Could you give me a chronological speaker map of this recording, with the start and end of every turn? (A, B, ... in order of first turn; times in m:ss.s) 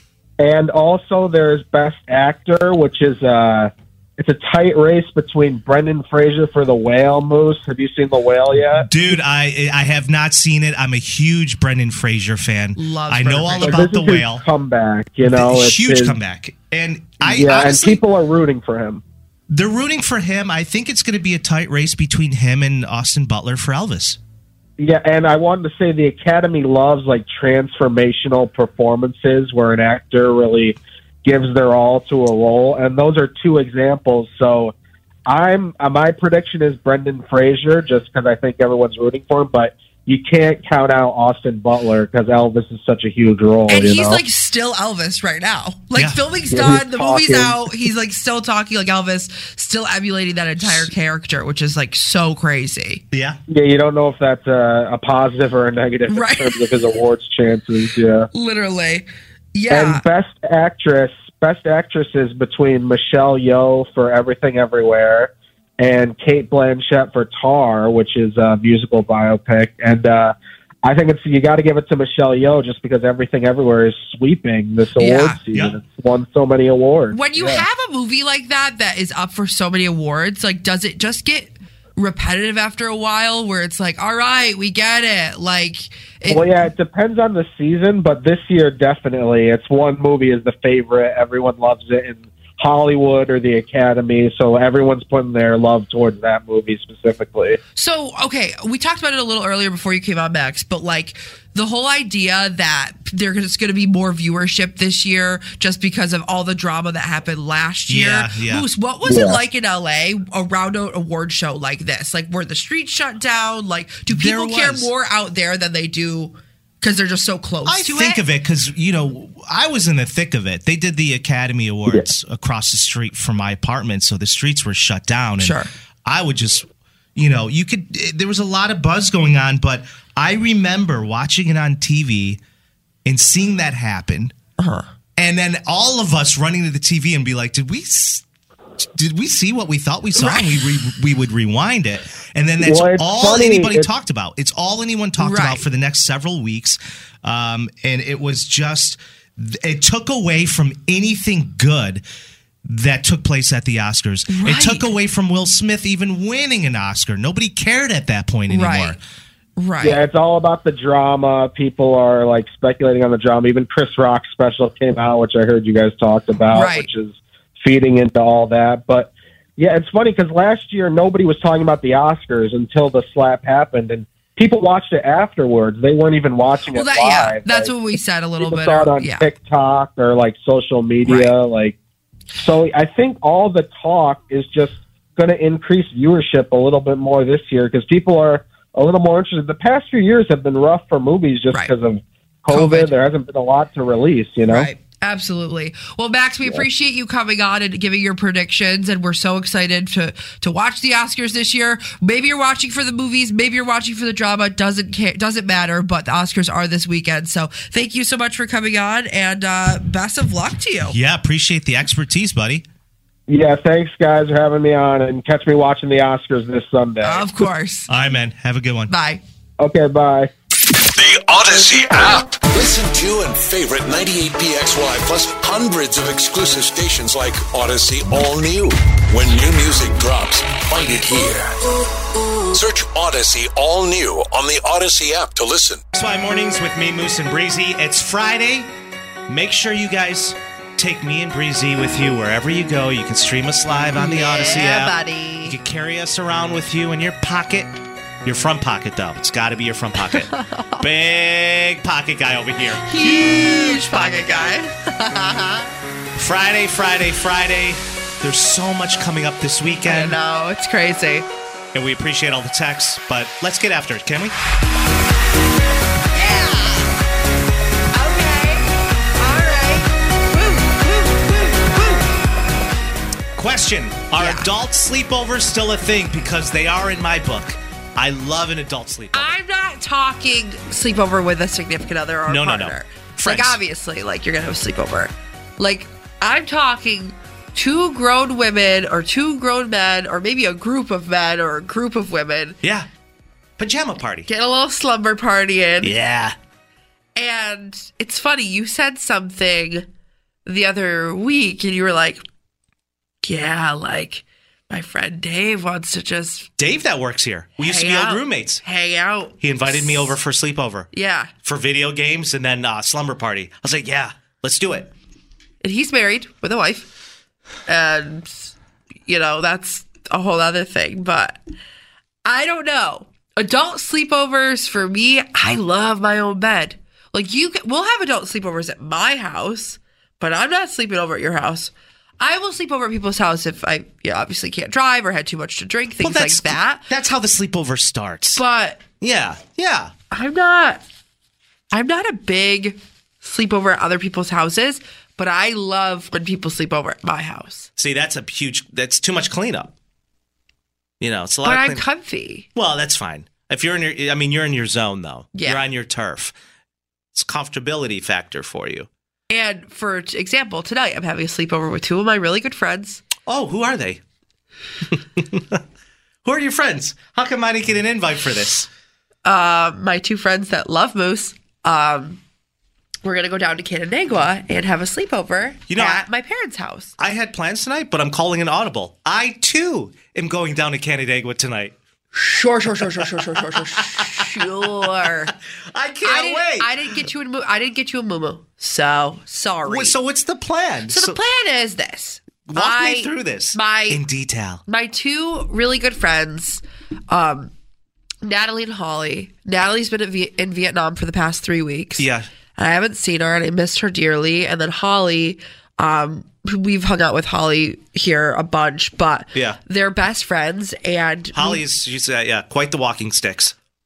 0:00.4-0:08.9 A
0:08.7-0:14.4 B
0:12.8-0:13.9 C
0:13.6-0:16.2 A
0:15.2-0:18.0 B
0:17.2-0:19.0 A
0:19.5-0:24.2 B
0:24.8-0:34.7 A
0:35.3-0:44.2 A
0:43.7-0:53.0 C
0:46.5-0:47.6 A
0:53.1-0:53.4 B
0:53.5-0:58.3 A
0:56.1-0:56.7 C
0:58.3-1:00.0 C
0:59.7-1:17.6 A
1:15.0-1:15.4 C
1:15.5-1:15.8 B
1:17.1-1:26.5 C
1:26.2-1:37.6 A
1:37.8-1:58.2 C
1:47.9-1:48.7 B
1:49.0-1:49.4 A
1:54.1-1:54.9 B
1:57.6-2:12.4 B
2:05.4-2:05.7 C
2:13.0-2:14.3 B
2:14.6-2:14.9 C
2:15.2-2:18.2 B
2:18.8-2:32.0 B
2:20.2-2:20.6 C
2:22.6-2:23.9 A
2:25.2-2:25.6 C
2:32.7-2:39.0 B
2:34.3-2:34.9 C
2:38.5-2:39.0 C
2:39.6-2:40.0 C
2:39.8-2:57.7 A
2:46.5-2:46.9 C
2:56.7-2:59.3 C
2:58.4-3:01.8 A
3:01.0-3:01.4 C
3:02.4-3:14.7 A
3:12.5-3:12.9 C
3:14.5-3:31.0 C
3:30.8-3:32.6 B
3:33.3-3:37.3 A
3:37.0-3:37.9 C
3:37.9-3:38.9 B
3:38.9-3:39.2 C
3:39.6-3:40.3 A
3:40.9-3:51.6 D
3:52.5-3:55.8 D
3:55.9-3:58.7 B
3:59.3-4:14.5 B
4:04.0-4:05.6 C
4:10.1-4:10.8 C
4:12.8-4:15.7 C
4:16.2-4:20.2 B
4:19.9-4:21.3 C
4:21.7-4:24.3 B
4:26.1-4:26.9 C
4:27.9-4:32.0 C
4:33.4-4:39.4 B
4:34.2-4:34.5 C
4:39.1-4:52.6 C
4:42.3-4:43.6 B
4:52.6-4:52.9 B
4:53.6-4:54.3 B
4:54.3-4:55.9 C
4:55.8-4:56.4 B
4:57.2-4:59.9 C
5:00.4-5:02.2 C
5:03.2-5:06.5 C
5:06.6-5:08.6 B
5:07.6-5:10.2 C
5:09.4-5:10.9 B
5:10.9-5:11.3 C
5:11.4-5:14.9 B
5:15.6-5:16.9 C
5:17.7-5:18.5 C
5:19.0-5:21.4 C
5:22.2-5:36.8 C
5:36.0-5:38.4 B
5:38.4-5:38.8 C
5:39.0-5:39.9 B
5:40.1-5:40.8 C
5:41.7-5:47.7 C
5:47.8-5:49.7 B
5:51.0-5:51.8 B
5:51.4-5:52.4 C
5:52.5-5:56.4 B
5:55.4-5:55.6 C
5:57.1-5:58.9 B
5:59.3-6:03.0 C
6:03.2-6:04.0 B
6:04.9-6:05.6 B
6:06.2-6:08.7 B
6:09.2-6:12.2 C
6:13.0-6:16.9 C
6:15.7-6:16.0 B
6:17.0-6:21.8 B
6:22.1-6:25.3 C
6:23.5-6:24.7 B
6:25.3-6:26.9 B
6:26.0-6:30.0 C
6:29.6-6:31.2 B
6:30.9-6:34.0 C
6:32.5-6:34.6 B
6:34.7-6:37.5 C
6:38.2-6:51.6 C
6:42.0-6:42.3 B
6:49.3-6:49.6 B
6:51.3-6:53.5 B